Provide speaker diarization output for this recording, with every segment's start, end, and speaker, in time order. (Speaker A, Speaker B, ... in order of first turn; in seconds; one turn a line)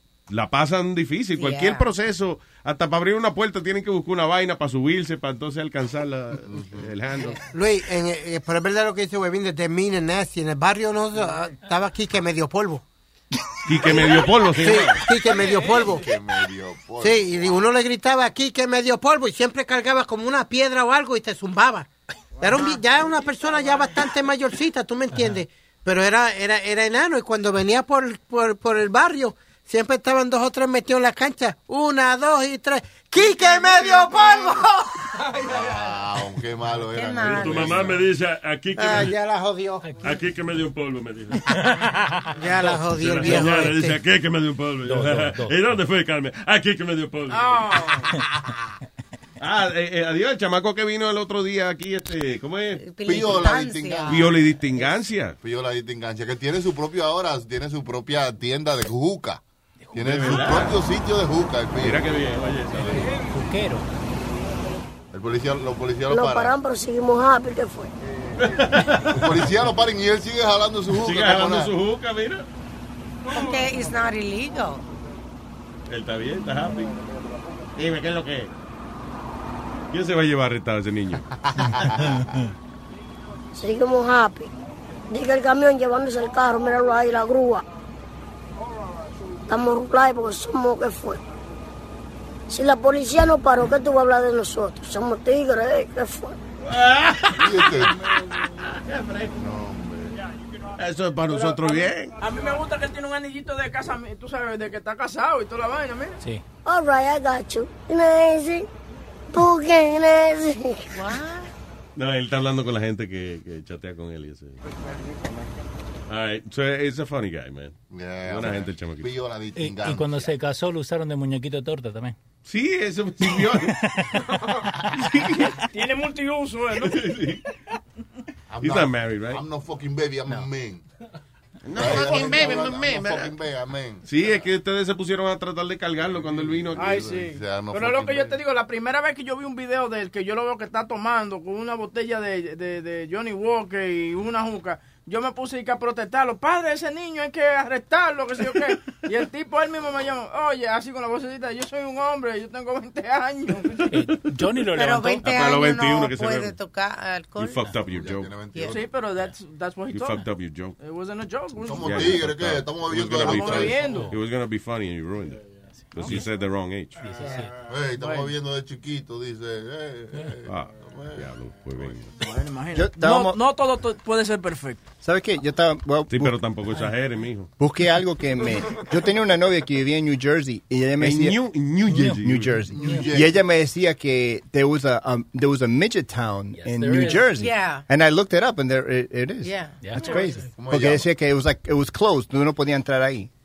Speaker A: 0.3-7.4
Speaker B: 1.3-1.9
Speaker C: 6.5-6.9
Speaker D: 7.5-12.8
Speaker A: 13.7-15.1
Speaker D: 14.6-16.1
Speaker C: 15.9-17.7
Speaker D: 17.0-21.9
Speaker D: 22.4-34.9
Speaker C: 35.4-38.0
Speaker B: 36.9-37.9
Speaker E: 37.3-39.2
Speaker D: 38.8-39.9
Speaker E: 40.0-41.5
Speaker D: 42.4-44.0
Speaker E: 42.6-47.9
Speaker F: 44.8-45.6
Speaker G: 47.3-48.1
Speaker A: 49.4-52.9
Speaker B: 52.8-54.9
Speaker C: 53.0-54.4
Speaker A: 54.1-55.4
Speaker C: 55.4-59.4
Speaker C: 59.9-62.1
Speaker A: 60.0-60.8
Speaker A: 61.8-63.1
Speaker F: 62.7-63.9
Speaker C: 65.1-66.5
Speaker H: 66.1-67.9
Speaker A: 68.4-69.5
Speaker C: 69.1-71.7
Speaker A: 70.9-72.5
Speaker B: 73.3-74.8
Speaker A: 75.9-76.9
Speaker A: 77.8-78.5
Speaker A: 79.9-81.3
Speaker H: 83.5-84.5
Speaker H: 85.1-87.6
Speaker H: 89.5-91.2
Speaker H: 92.5-96.4
Speaker A: 96.7-97.8
Speaker C: 97.3-98.0
Speaker A: 98.7-99.3
Speaker C: 99.4-100.2
Speaker A: 100.8-102.2
Speaker G: 101.4-106.2
Speaker H: 106.7-108.7
Speaker H: 109.3-110.9
Speaker B: 110.9-111.5
Speaker A: 112.0-114.6
Speaker A: 116.1-119.1
Speaker C: 117.9-120.2
Speaker F: 119.6-122.2
Speaker A: 122.5-123.8
Speaker F: 123.5-124.1
Speaker A: 124.9-125.5
Speaker G: 125.7-127.1
Speaker A: 126.8-127.4
Speaker C: 128.5-130.8
Speaker A: 128.6-129.4
Speaker A: 131.7-133.3
Speaker C: 131.7-134.1
Speaker A: 134.1-137.0
Speaker C: 136.1-138.4
Speaker G: 136.8-153.9
Speaker F: 153.9-155.2
Speaker B: 154.7-157.7
Speaker A: 155.2-156.6
Speaker A: 157.4-158.3
Speaker C: 157.9-158.8
Speaker G: 158.7-160.2
Speaker A: 159.9-160.8
Speaker G: 160.8-162.2
Speaker C: 161.7-163.8
Speaker A: 161.8-167.1
Speaker G: 163.2-164.1
Speaker F: 163.8-164.1
Speaker F: 167.0-167.5
Speaker C: 167.7-171.2
Speaker G: 168.0-168.3
Speaker A: 170.5-172.1
Speaker G: 172.2-174.8
Speaker I: 172.8-173.4
Speaker I: 175.0-176.4
Speaker A: 176.1-177.5
Speaker I: 177.6-181.4
Speaker A: 181.0-182.6
Speaker F: 181.9-182.2
Speaker I: 181.9-193.3
Speaker C: 182.8-183.4
Speaker F: 186.6-187.4
Speaker B: 187.3-187.8
Speaker B: 189.4-189.8
Speaker F: 189.8-190.3
Speaker C: 190.6-191.1